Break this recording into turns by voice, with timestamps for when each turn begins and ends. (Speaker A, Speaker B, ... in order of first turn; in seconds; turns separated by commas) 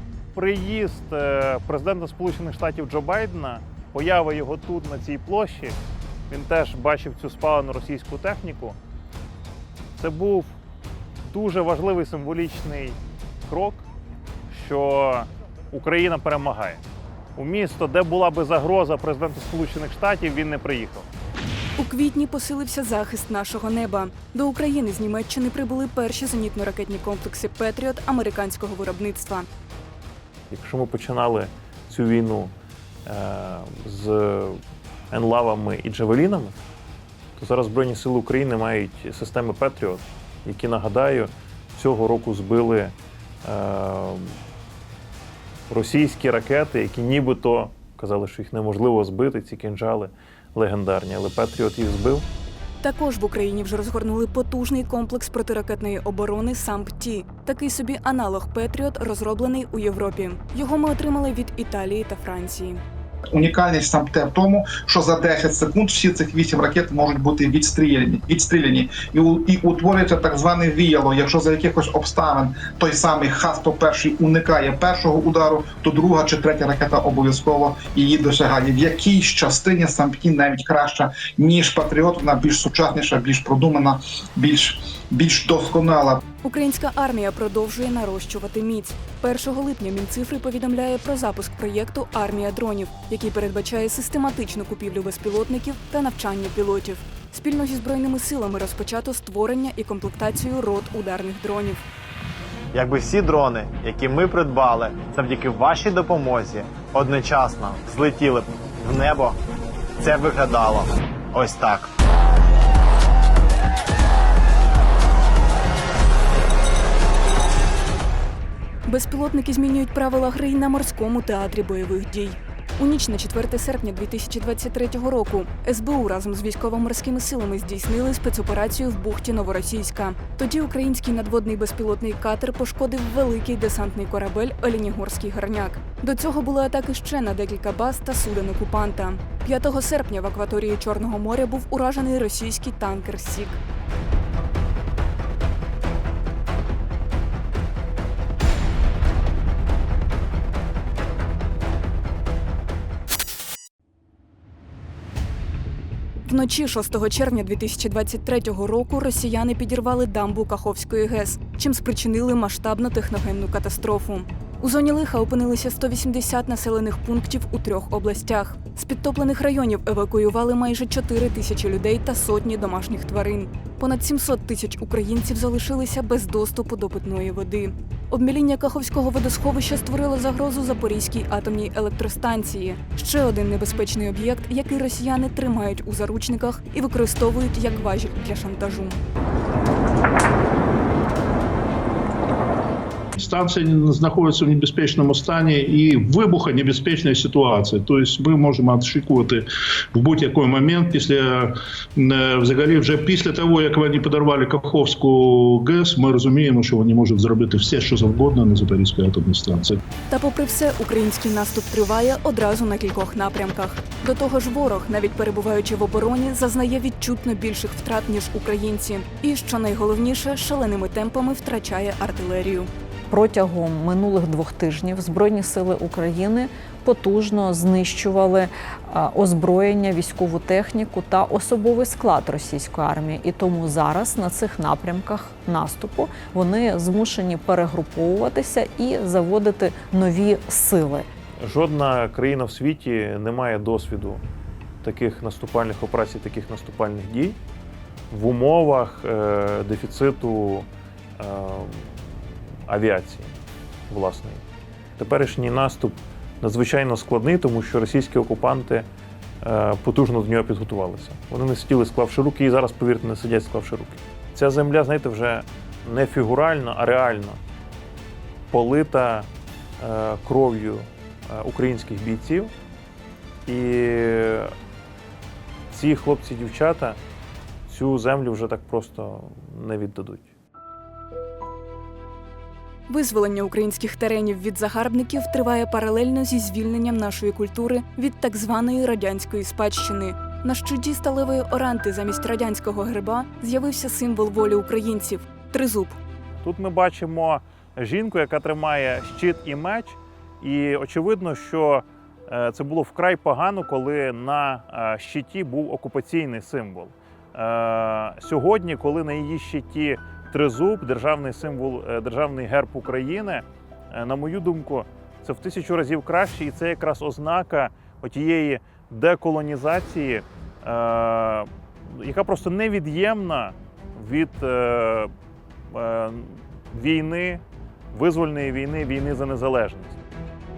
Speaker A: 0.3-5.8, Speaker A: 6.3-8.8, Speaker A: 9.9-10.5, Speaker A: 11.3-13.8, Speaker A: 14.5-16.8, Speaker A: 17.4-21.1, Speaker B: 21.8-29.5, Speaker A: 30.5-32.5, Speaker A: 33.0-34.6, Speaker A: 35.1-36.5, Speaker A: 37.4-42.9, Speaker A: 43.4-44.3, Speaker A: 45.7-52.3, Speaker B: 52.8-62.8, Speaker C: 63.3-86.2, Speaker B: 86.4-101.8, Speaker D: 102.7-109.4, Speaker D: 110.0-111.9, Speaker B: 118.9-143.6, Speaker B: 156.2-189.0, Speaker E: 193.2-209.8, Speaker B: 210.1-222.7, Speaker F: 223.1-241.1, Speaker A: 241.4-244.2, Speaker A: 244.8-247.4, Speaker A: 248.1-250.7, Speaker A: 251.2-252.1, Speaker A: 252.7-253.3, Speaker A: 253.9-254.4, Speaker A: 255.0-258.9, Speaker A: 259.4-267.4, Speaker A: 268.5-269.3, Speaker A: 269.8-272.5, Speaker A: 273.4-274.5, Speaker A: 275.7-277.0, Speaker A: 277.7-280.3, Speaker B: 282.9-296.0, Speaker A: 296.4-325.1, Speaker A: 325.7-330.0